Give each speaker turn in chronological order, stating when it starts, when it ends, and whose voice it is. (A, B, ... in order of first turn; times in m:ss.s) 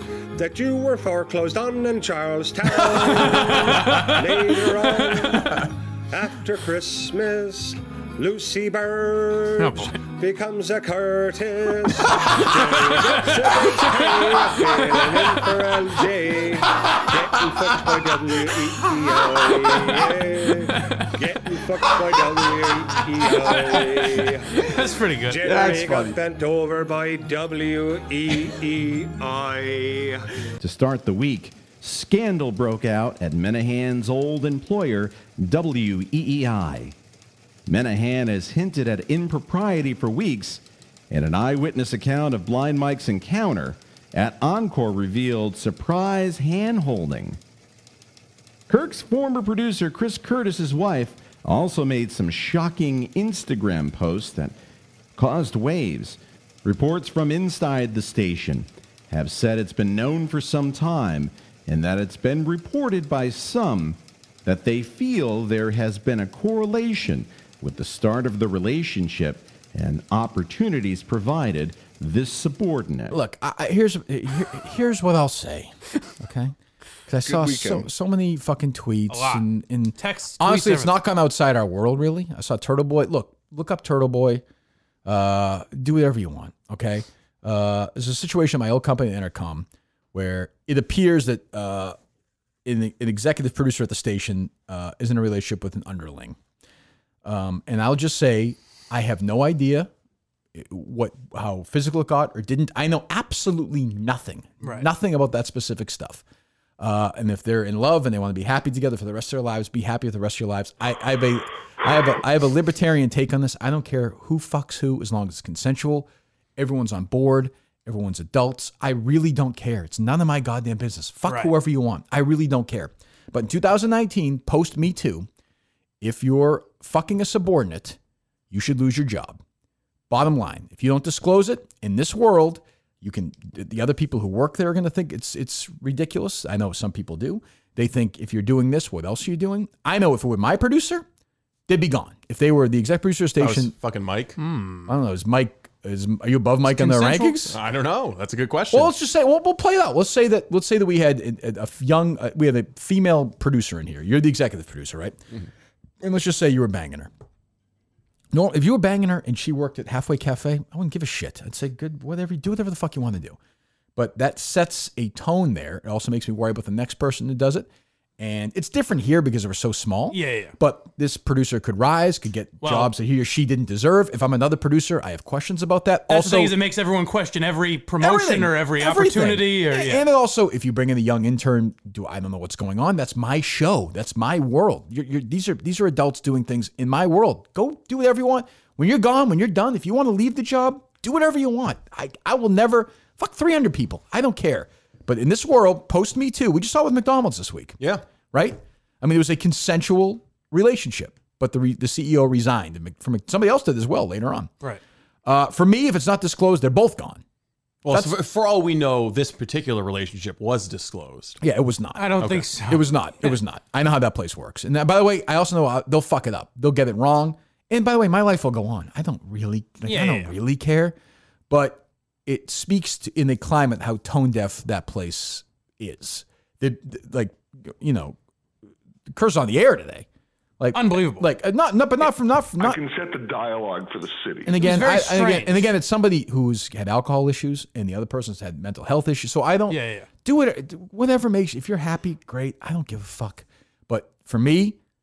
0:00.4-0:24.6 A
0:03.3-0:04.2 B
0:09.6-0:10.0 B
0:13.8-0:14.5 B
0:20.7-0:21.1 B
0:23.4-0:25.5 B
0:25.2-0:30.3 A
0:25.4-0:26.1 C
0:30.6-0:37.0 D
0:37.7-0:47.4 D
0:48.7-0:54.6 D
0:55.2-1:13.2 D
1:13.1-1:16.6 E
1:17.1-1:24.4 E
1:19.1-1:19.4 B
1:20.0-1:21.0 B
1:25.0-1:32.0 E
1:32.6-1:36.4 E
1:37.2-1:39.9 E
1:40.5-1:46.2 E
1:44.6-1:44.9 B
1:46.8-2:05.3 E
2:01.3-2:01.5 B
2:06.0-2:08.0 E
2:08.5-2:09.4 E
2:10.1-2:21.0 E
2:21.7-2:23.7 E
2:23.4-2:24.4 C
2:24.4-2:24.9 B
2:24.9-2:27.6 E
2:26.7-2:27.5 B
2:27.5-2:28.9 C
2:28.7-2:35.2 E
2:36.0-2:37.1 E
2:38.3-2:43.4 E
2:44.0-2:47.7 E
2:48.2-2:56.6 E
2:50.1-2:50.6 B
2:52.6-2:52.9 B
2:56.1-3:00.1 B
2:58.0-3:17.8 E
3:18.3-3:24.5 E
3:25.2-3:27.2 E
3:27.8-3:31.4 C
3:27.9-3:28.2 E
3:31.4-3:41.0 E
3:32.0-3:32.9 B
3:32.2-3:32.5 C
3:39.9-3:40.3 B
3:41.5-3:48.2 E
3:49.1-3:50.1 E
3:50.6-3:52.8 E
3:50.7-3:51.3 B
3:52.6-3:54.6 F
3:54.4-4:04.8 E
3:54.6-3:55.7 B
3:59.7-4:00.1 B